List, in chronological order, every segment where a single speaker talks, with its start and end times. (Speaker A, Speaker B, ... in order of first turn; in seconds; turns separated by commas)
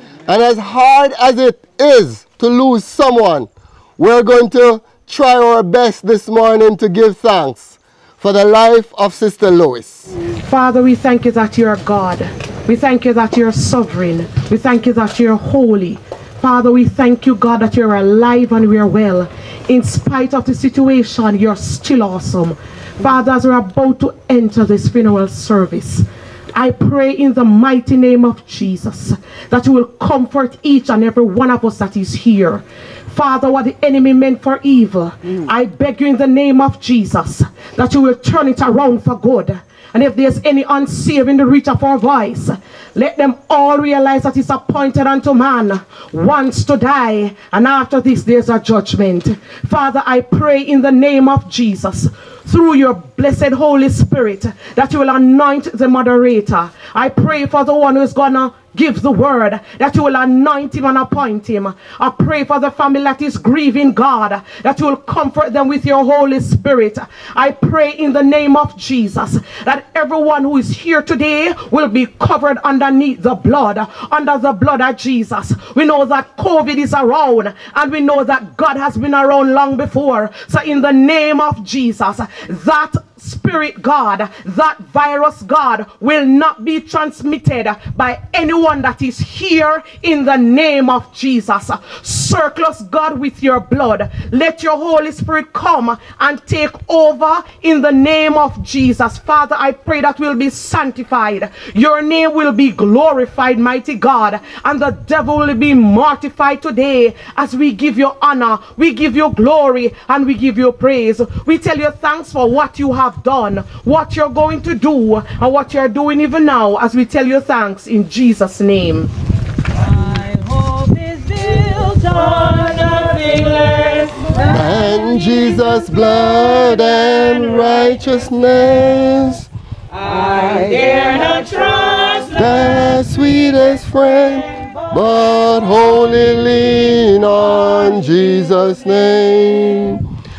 Speaker A: 0.3-10.0, Speaker B: 10.4-119.1, Speaker C: 121.6-124.2, Speaker A: 124.5-129.5, Speaker C: 130.2-132.1, Speaker A: 132.4-140.0